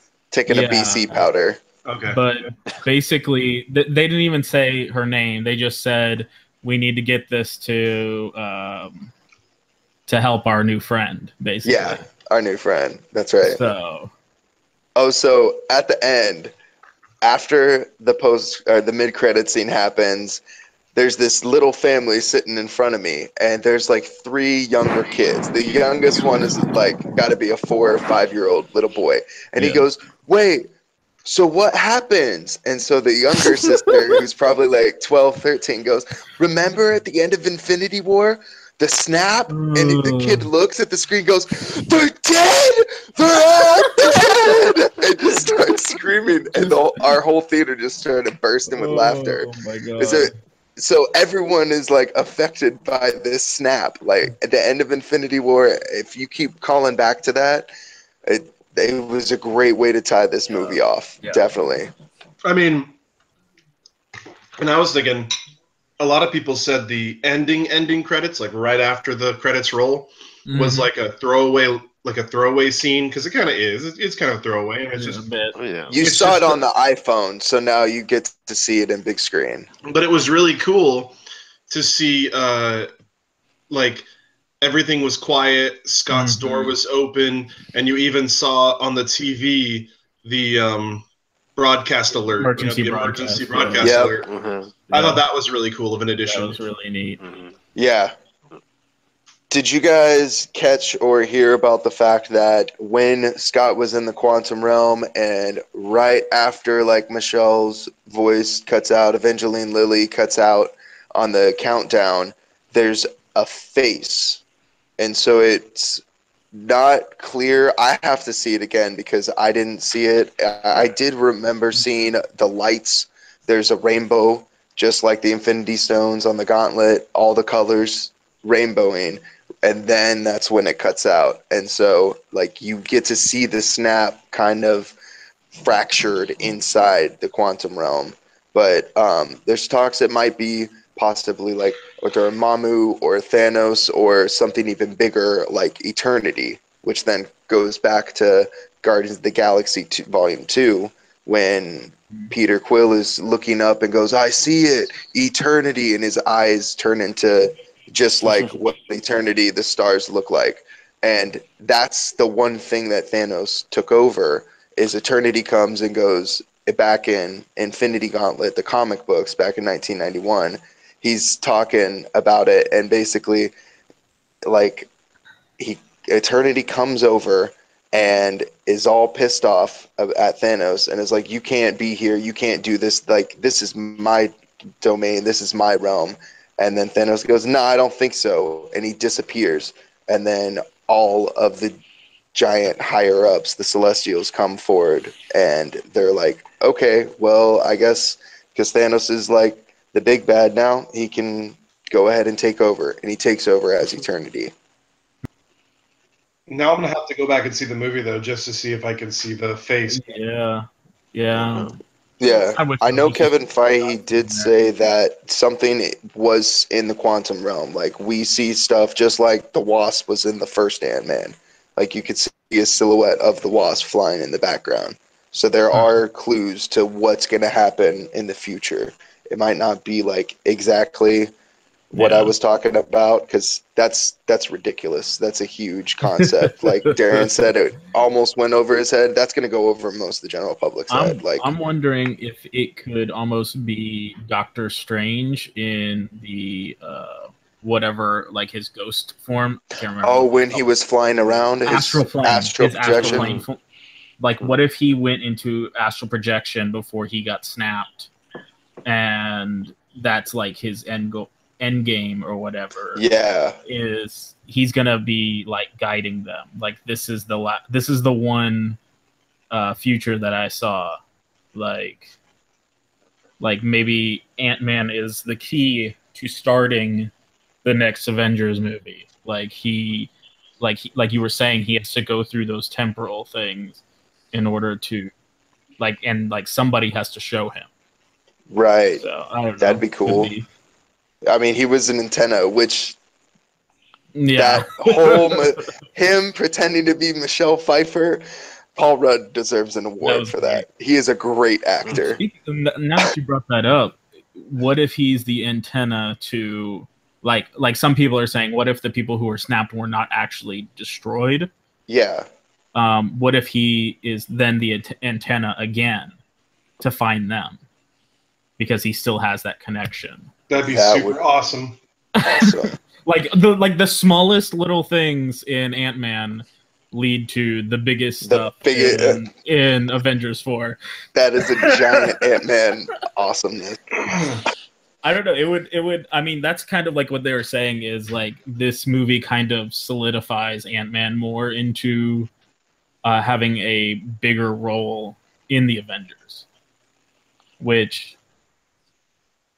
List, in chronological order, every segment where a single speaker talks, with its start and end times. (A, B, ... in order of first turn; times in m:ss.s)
0:00.3-0:01.6 A
0:00.5-0:01.3 B
0:01.8-0:02.2 C
0:02.1-0:09.1 B
0:10.1-0:12.0 B
0:11.6-0:13.6 A
0:13.4-0:14.1 B
0:15.0-0:16.5 A
0:17.2-0:20.4 A
0:20.9-0:30.7 A
0:29.6-0:29.8 B
0:31.2-0:57.7 A
0:39.5-0:40.5 B
0:48.7-0:50.3 B
0:58.2-1:01.9 A
1:02.4-1:02.9 C
1:04.6-1:05.3 C
1:06.0-1:15.2 C
1:10.5-1:10.9 B
1:15.0-1:15.6 B
1:15.6-1:16.0 D
1:15.9-1:19.7 A
1:16.0-1:16.6 C
1:19.8-1:21.2 C
1:21.7-1:22.9 C
1:23.7-1:24.1 C
1:24.6-1:31.0 C
1:26.1-1:26.8 B
1:31.6-1:34.3 C
1:32.4-1:33.9 B
1:33.8-1:34.2 A
1:34.2-1:34.7 D
1:34.9-1:35.2 B
1:34.9-1:36.6 C
1:36.2-1:37.2 B
1:37.2-1:37.5 D
1:37.7-1:38.1 A
1:39.5-1:54.4 A
1:55.0-1:56.0 A
1:56.5-2:14.9 A
2:15.6-2:53.5 A
2:54.4-2:54.9 A
2:55.6-3:11.8 A
3:12.3-3:24.5 A
3:26.5-3:30.0 C
3:29.9-3:31.8 B
3:31.3-3:31.7 D
3:32.2-3:51.3 A
3:32.6-3:33.3 B
3:34.2-3:34.5 B
3:51.9-4:01.5 A
3:51.9-3:52.3 B
3:56.1-3:57.3 B
4:00.9-4:10.6 B
4:10.0-4:13.3 A
4:11.6-4:13.6 B
4:13.0-4:13.4 D
4:14.2-4:18.1 B
4:18.8-4:23.0 B
4:22.9-4:23.6 A
4:23.6-4:28.8 B
4:29.5-4:31.0 B
4:31.5-4:32.1 B
4:33.4-4:37.1 B
4:37.6-4:43.8 B
4:44.3-4:45.1 B
4:45.8-4:47.7 B
4:48.5-4:49.0 A
4:49.0-4:50.5 B
4:49.6-4:50.3 A
4:51.2-4:53.0 A
4:54.1-4:55.4 B
4:54.3-4:58.2 A
4:58.8-5:02.2 A
5:00.0-5:00.6 B
5:01.9-5:11.5 B
5:11.9-5:12.2 A
5:12.7-5:16.1 B
5:16.8-5:17.6 B
5:18.6-5:20.3 B
5:20.5-5:21.8 C
5:20.7-5:21.2 A
5:22.2-5:30.8 B
5:22.2-5:22.7 A
5:28.2-5:29.2 A
5:31.1-5:33.9 A
5:31.5-5:32.0 B
5:35.0-5:42.3 B
5:43.0-5:46.4 B
5:47.6-5:48.2 B